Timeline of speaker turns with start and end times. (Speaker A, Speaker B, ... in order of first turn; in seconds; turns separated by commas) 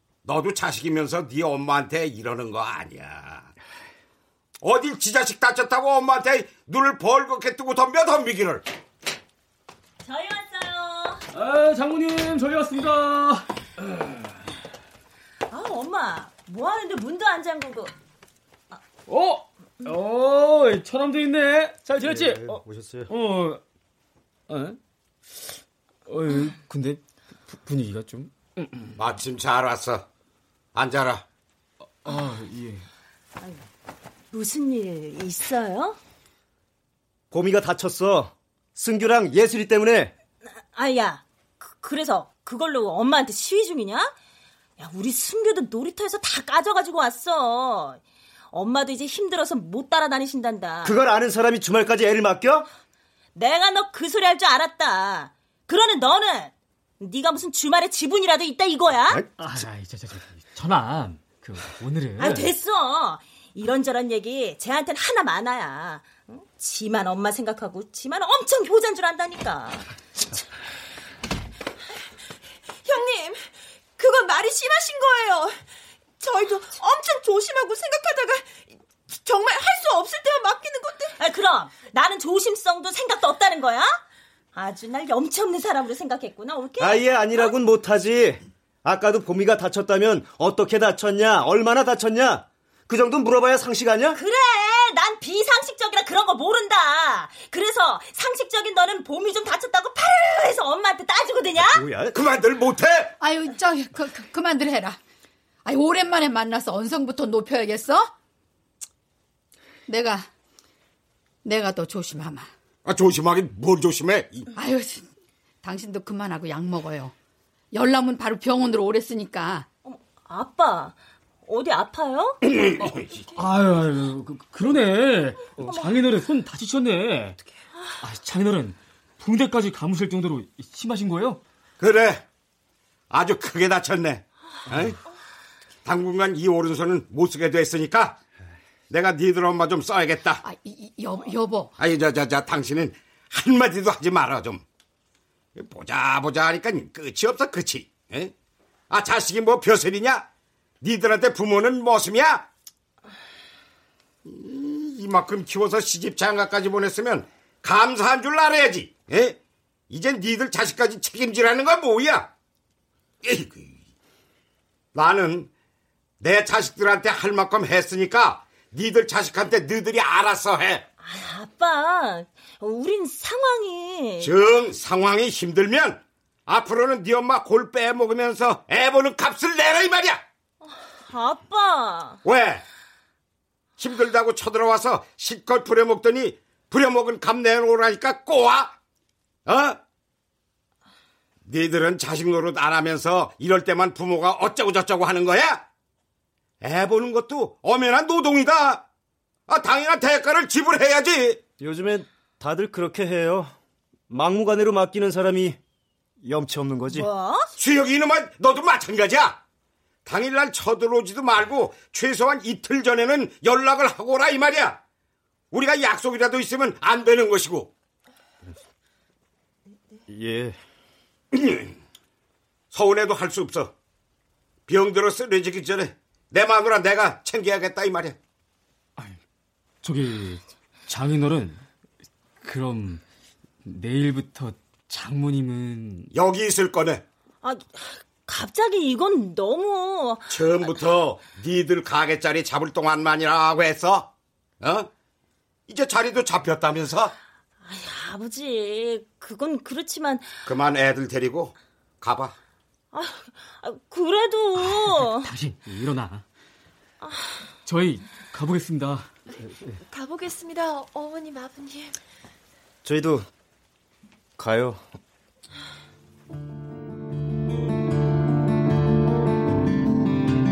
Speaker A: 0.2-3.5, Speaker A: 4.6-8.6, Speaker B: 10.0-11.2, Speaker C: 11.3-13.5, Speaker B: 15.5-17.9, Speaker C: 19.1-23.6, Speaker D: 22.0-23.1, Speaker C: 24.5-24.8, Speaker C: 26.1-29.0, Speaker A: 29.0-30.1, Speaker A: 30.8-31.2, Speaker C: 32.0-32.9, Speaker B: 34.3-36.0, Speaker D: 37.3-40.1, Speaker B: 40.7-44.1, Speaker B: 44.8-48.0, Speaker B: 48.5-51.0, Speaker D: 50.8-52.7, Speaker B: 53.4-59.2, Speaker C: 59.4-62.5, Speaker B: 62.2-69.9, Speaker E: 72.8-75.7, Speaker E: 76.2-81.2, Speaker B: 81.2-84.0, Speaker B: 84.5-87.5, Speaker D: 86.8-94.2, Speaker B: 94.1-101.8, Speaker D: 101.6-102.2, Speaker A: 102.1-103.1, Speaker F: 103.2-105.0, Speaker F: 105.7-108.1, Speaker F: 109.9-110.3, Speaker F: 111.4-112.5, Speaker A: 112.8-114.5, Speaker F: 114.5-115.1, Speaker F: 115.6-117.2, Speaker F: 117.7-119.7, Speaker B: 119.9-121.0, Speaker B: 121.5-122.4, Speaker A: 122.5-123.1, Speaker C: 123.4-127.4, Speaker C: 128.0-131.4, Speaker A: 131.8-132.2, Speaker A: 133.1-135.0, Speaker A: 135.8-138.2, Speaker A: 138.9-140.4, Speaker F: 140.4-141.8, Speaker A: 141.8-144.6, Speaker A: 145.6-148.3, Speaker A: 148.9-150.2, Speaker A: 150.8-152.5, Speaker A: 154.2-159.4, Speaker A: 159.9-162.3, Speaker A: 163.2-163.8, Speaker A: 164.9-165.5, Speaker A: 166.2-170.8, Speaker B: 171.0-174.3, Speaker A: 174.2-180.2, Speaker B: 181.1-182.2, Speaker A: 182.2-182.6, Speaker A: 183.8-188.7, Speaker A: 189.5-189.8, Speaker A: 191.5-195.6, Speaker A: 196.6-198.8, Speaker A: 199.5-201.4, Speaker D: 201.6-203.5, Speaker D: 204.1-205.6, Speaker D: 206.2-207.1, Speaker B: 206.9-207.5, Speaker A: 207.6-209.4, Speaker A: 210.1-214.8, Speaker A: 215.5-217.7, Speaker D: 220.1-220.6, Speaker A: 221.3-221.8, Speaker A: 222.7-223.7, Speaker A: 224.7-228.2, Speaker C: 229.8-231.6, Speaker C: 232.4-233.0, Speaker C: 233.6-236.1, Speaker A: 236.1-237.0, Speaker B: 237.4-240.4, Speaker A: 240.3-244.9, Speaker A: 245.7-247.1, Speaker B: 247.6-250.3, Speaker A: 250.5-252.3, Speaker B: 252.9-255.3, Speaker C: 254.6-256.2, Speaker C: 257.6-259.1, Speaker E: 259.9-262.0, Speaker D: 262.8-263.3, Speaker D: 264.4-264.8